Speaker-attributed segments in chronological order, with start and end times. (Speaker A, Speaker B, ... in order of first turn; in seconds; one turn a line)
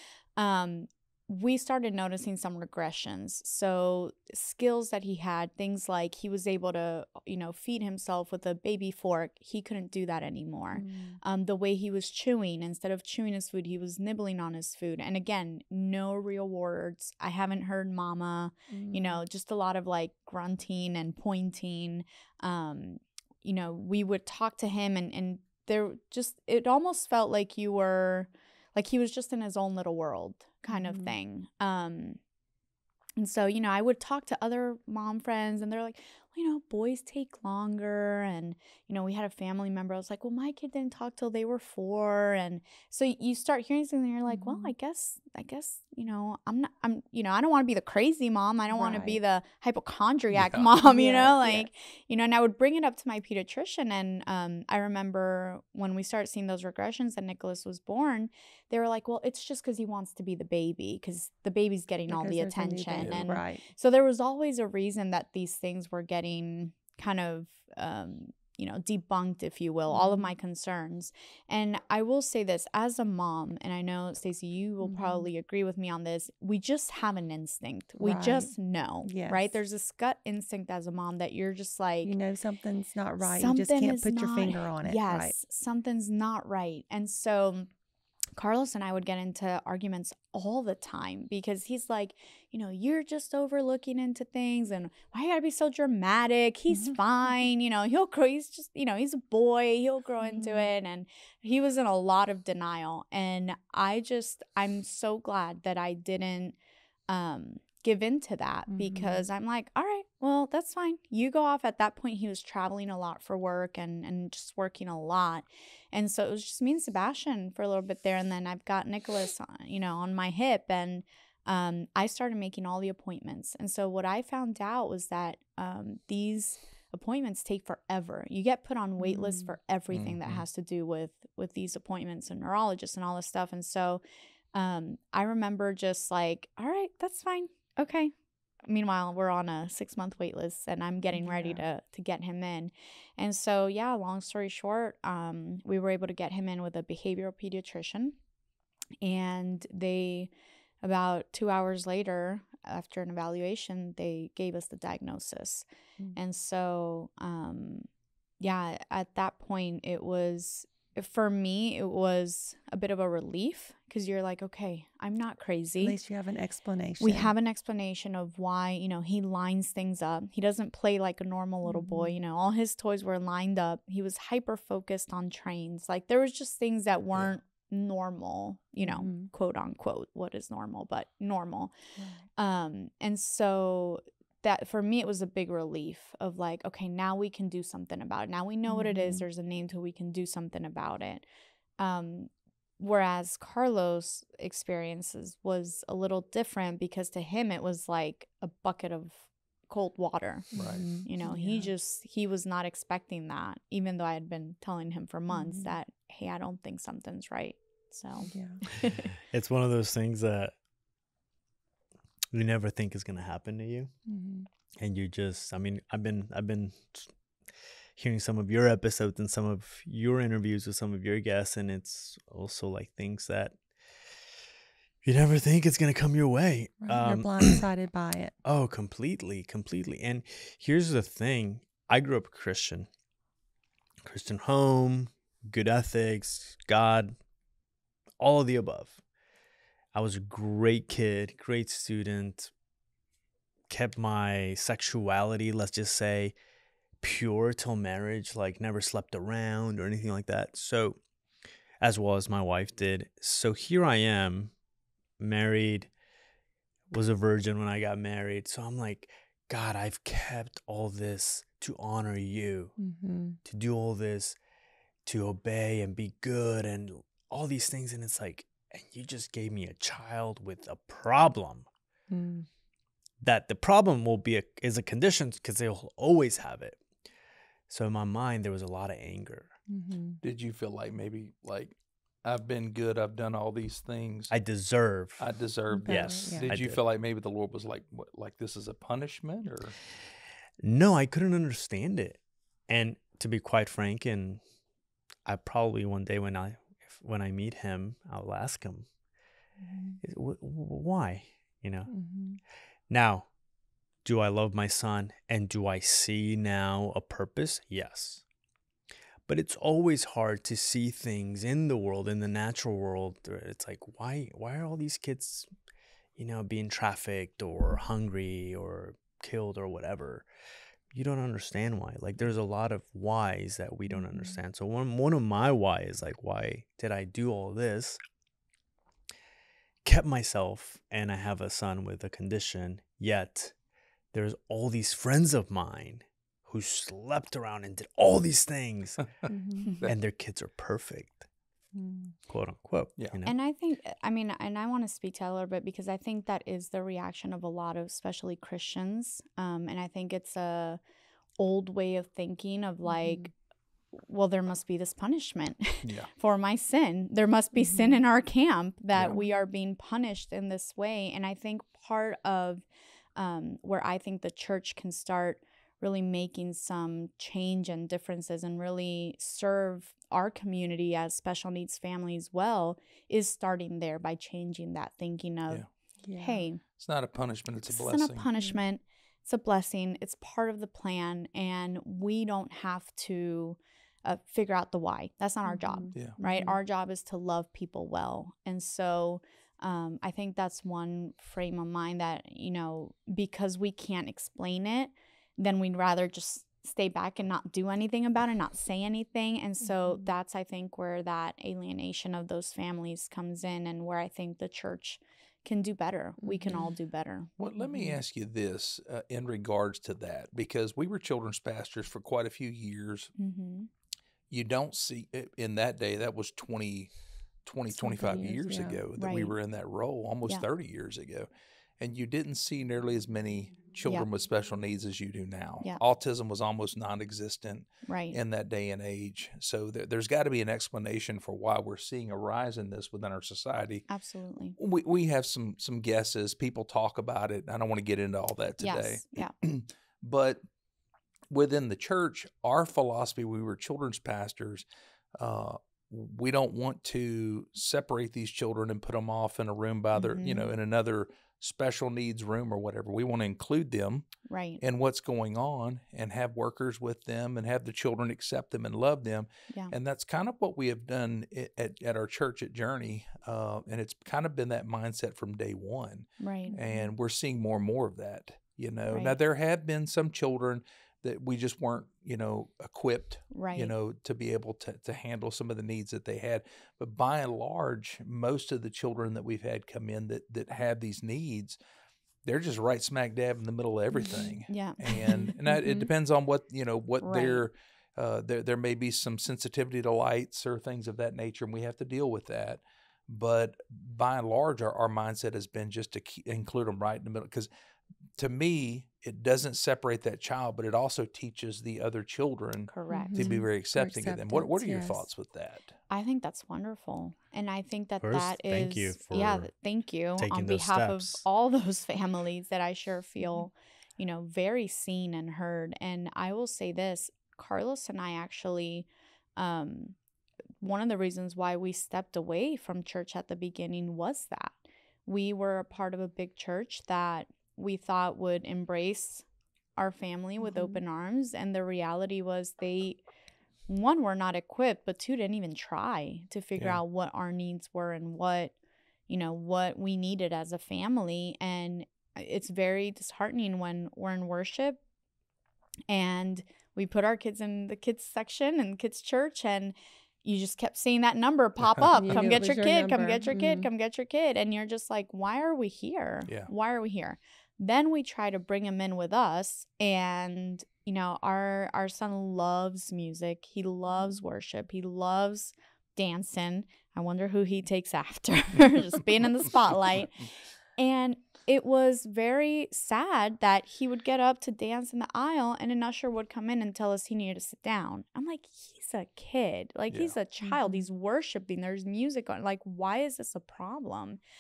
Speaker A: 0.4-32.2
Speaker B: 10.7-11.2
Speaker B: 18.7-19.2
Speaker B: 30.7-31.1
Speaker A: 33.2-82.1
Speaker B: 44.3-44.7
Speaker B: 48.7-49.2
Speaker C: 50.3-50.7
Speaker B: 50.8-51.7
Speaker B: 62.1-63.6
Speaker C: 63.0-63.2
Speaker B: 69.9-70.3
Speaker B: 74.8-75.3
Speaker B: 78.0-78.5
Speaker B: 79.0-79.6
Speaker B: 82.0-85.4
Speaker A: 83.2-87.7
Speaker A: 88.4-106.6
Speaker B: 100.2-100.7
Speaker A: 107.1-134.0
Speaker B: 108.7-109.3
Speaker B: 129.0-129.5
Speaker C: 129.9-130.4
Speaker A: 134.5-138.1
Speaker A: 138.7-148.2
Speaker B: 141.1-141.7
Speaker A: 149.0-150.3
Speaker A: 150.8-155.7
Speaker A: 156.2-157.9
Speaker A: 158.4-166.0
Speaker B: 165.8-167.3
Speaker A: 167.0-181.7
Speaker B: 171.6-172.2
Speaker B: 178.8-179.3
Speaker B: 182.0-182.2
Speaker A: 182.4-191.2
Speaker B: 188.7-189.3
Speaker A: 191.8-209.1
Speaker B: 200.5-201.7
Speaker C: 200.6-200.9
Speaker B: 205.3-205.8
Speaker B: 208.2-208.6
Speaker D: 209.2-210.5
Speaker D: 212.3-213.9
Speaker B: 214.1-214.5
Speaker D: 214.8-217.1
Speaker D: 218.0-223.6
Speaker D: 225.0-227.6
Speaker B: 226.8-228.3
Speaker D: 228.4-232.9
Speaker D: 234.0-237.2
Speaker D: 238.2-239.0
Speaker D: 239.9-242.5
Speaker D: 243.7-246.3
Speaker D: 247.0-251.0
Speaker D: 251.8-254.5
Speaker D: 255.2-255.9
Speaker D: 256.9-262.8
Speaker B: 262.8-263.4
Speaker D: 263.4-264.4
Speaker D: 265.1-271.7
Speaker B: 272.1-272.5
Speaker D: 273.2-276.8
Speaker D: 277.7-279.5
Speaker B: 279.7-280.2
Speaker C: 280.2-284.3
Speaker D: 284.3-285.3
Speaker C: 285.2-289.8
Speaker B: 285.7-286.5
Speaker D: 285.9-286.8
Speaker D: 290.6-294.4
Speaker D: 295.2-298.9
Speaker B: 299.6-300.0
Speaker D: 300.0-301.9
Speaker B: 301.9-302.4
Speaker D: 302.9-303.3
Speaker D: 304.1-308.2
Speaker D: 309.3-315.5
Speaker D: 316.2-320.3
Speaker D: 320.9-328.0
Speaker B: 323.9-324.4
Speaker D: 329.8-333.5
Speaker D: 334.1-339.1
Speaker B: 339.3-339.7
Speaker D: 339.8-341.3
Speaker B: 341.8-342.1
Speaker D: 342.3-343.4
Speaker A: 343.2-350.8
Speaker A: 351.4-353.3
Speaker B: 352.9-353.3
Speaker A: 353.9-375.6
Speaker C: 355.8-356.1
Speaker B: 357.6-358.0
Speaker C: 358.9-359.2
Speaker B: 376.0-376.4
Speaker A: 376.2-376.6
Speaker C: 376.8-378.3
Speaker A: 377.7-407.3
Speaker B: 385.4-386.6
Speaker B: 406.2-406.7
Speaker C: 407.4-413.1
Speaker B: 407.6-408.0
Speaker A: 413.2-413.7
Speaker C: 414.3-416.9
Speaker C: 417.4-421.3
Speaker B: 417.8-418.8
Speaker A: 419.0-419.3
Speaker C: 421.8-433.9
Speaker A: 427.9-428.2
Speaker A: 433.9-434.6
Speaker C: 434.6-440.4
Speaker A: 438.6-439.3
Speaker C: 441.3-444.7
Speaker C: 445.2-454.1
Speaker A: 449.9-450.5
Speaker A: 454.3-454.6
Speaker C: 454.6-481.6
Speaker A: 466.2-466.6
Speaker B: 466.5-466.9
Speaker A: 468.9-469.2
Speaker A: 473.3-473.7
Speaker C: 482.2-497.5
Speaker B: 483.9-484.4
Speaker A: 484.5-485.9
Speaker A: 487.0-487.5
Speaker C: 498.2-505.8
Speaker A: 502.7-503.4
Speaker B: 502.9-505.0
Speaker A: 505.9-520.0
Speaker D: 508.0-509.5
Speaker D: 510.2-511.2
Speaker A: 520.6-529.2
Speaker A: 529.8-533.0
Speaker B: 530.4-530.8
Speaker A: 533.7-538.6
Speaker A: 539.1-544.8
Speaker A: 545.9-584.2
Speaker B: 551.9-553.7
Speaker C: 556.3-556.5
Speaker B: 580.4-580.9